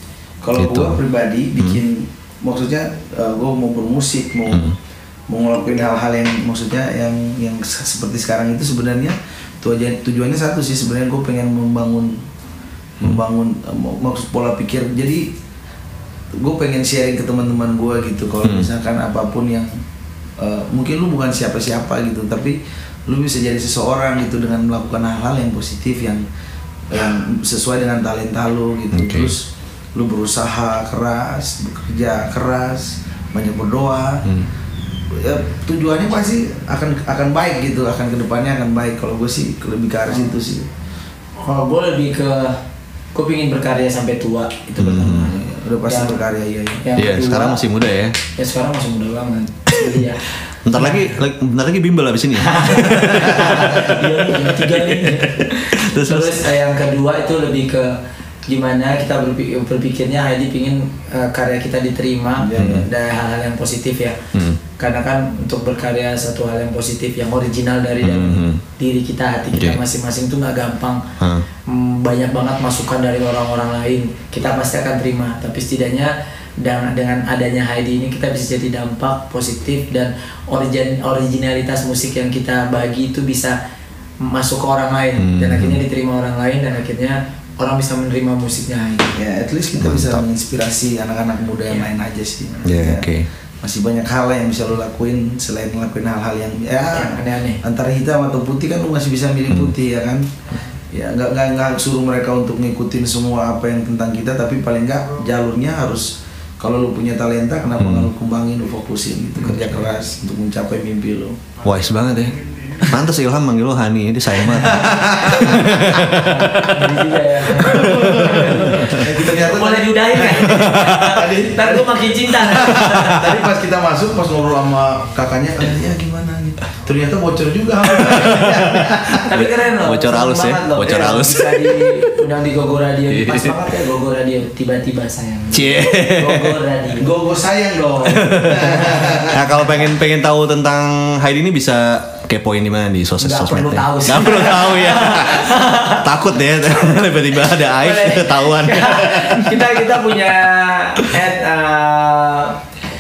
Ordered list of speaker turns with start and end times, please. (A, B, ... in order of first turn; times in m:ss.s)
0:00.4-0:04.7 A
0:00.6-0:01.0 B
0:04.5-0:04.8 B
0:05.3-0:12.2 A
0:13.0-0:15.3 A
0:16.4-0:19.7 A
0:18.4-0:18.7 B
0:20.4-0:26.3 A
0:26.9-0:34.3 A
0:28.9-0:29.3 B
0:35.1-0:40.7 A
0:41.4-0:42.6 C
0:43.1-0:45.0 C
0:44.7-0:46.8 A
0:44.8-0:45.3 B
0:45.9-0:46.2 C
0:46.8-0:47.6 C
0:47.0-0:48.2 B
0:48.4-0:50.2 C
0:50.6-0:56.4 B
0:50.8-0:51.1 C
0:52.4-0:58.0 C
0:58.5-1:04.2 C
1:02.4-1:02.9 A
1:02.6-1:02.9 B
1:04.3-1:04.6 B
1:04.8-1:11.0 C
1:08.0-1:08.6 B
1:09.5-1:09.8 B
1:11.2-1:11.4 B
1:11.7-1:23.6 C
1:24.2-1:29.2 C
1:25.2-1:25.8 B
1:29.2-1:33.1 A
1:29.8-1:30.2 B
1:32.6-1:33.3 B
1:33.6-1:40.3 A
1:36.9-1:37.6 C
1:40.9-1:46.1 A
1:46.6-1:51.4 A
1:47.8-1:48.1 B
1:51.6-1:56.8 B
1:54.5-1:55.8 A
1:55.4-2:03.4 C
1:57.6-2:09.3 A
1:57.7-1:58.6 B
2:00.3-2:01.3 B
2:07.9-2:12.1 B
2:09.2-2:17.1 C
2:13.1-2:13.6 B
2:15.5-2:16.6 B
2:17.0-2:19.5 A
2:18.0-2:19.3 C
2:18.1-2:29.9 B
2:23.2-2:26.1 C
2:27.8-2:32.6 C